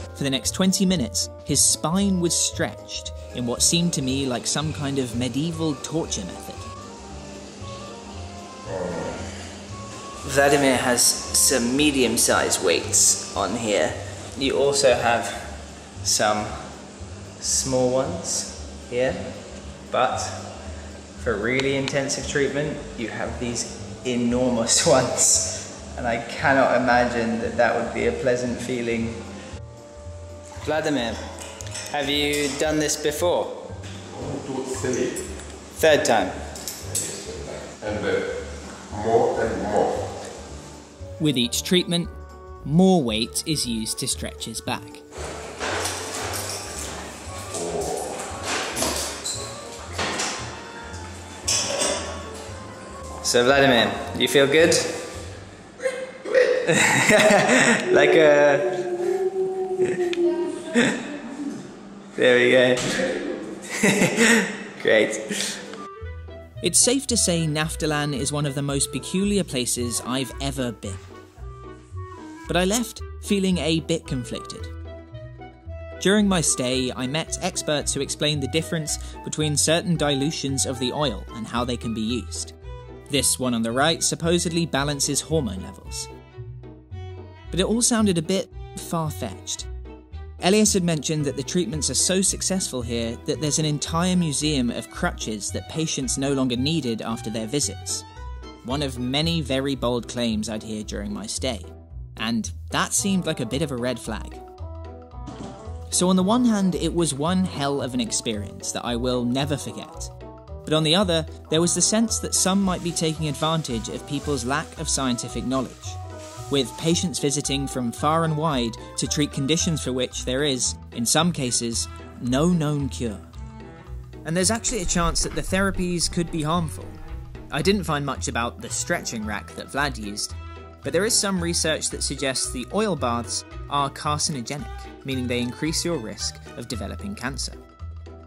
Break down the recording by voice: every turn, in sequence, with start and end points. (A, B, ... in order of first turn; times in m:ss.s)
0:00.2-0:06.7 A
0:08.7-0:09.2 B
0:10.2-0:16.7 C
0:17.4-0:19.3 C
0:19.9-0:20.5 C
0:21.2-0:29.2 C
0:30.6-0:31.2 C
0:31.9-0:33.6 C
0:34.1-0:35.2 B
0:35.8-0:36.4 C
0:36.8-0:40.1 B
0:41.2-0:42.1 A
0:42.8-0:45.0 A
0:47.5-0:48.2 B
0:53.2-0:54.9 C
0:56.4-0:58.9 C
1:02.2-1:03.0 C
1:03.7-1:05.6 C
1:06.6-1:11.0 A
1:12.5-1:14.7 A
1:16.0-1:22.6 A
1:23.1-1:26.1 A
1:27.5-1:29.7 A
1:30.4-1:38.0 A
1:38.6-1:44.4 A
1:45.9-1:50.1 A
1:50.7-1:56.0 A
1:56.5-2:03.2 A
2:04.3-2:07.0 A
2:07.5-2:17.6 A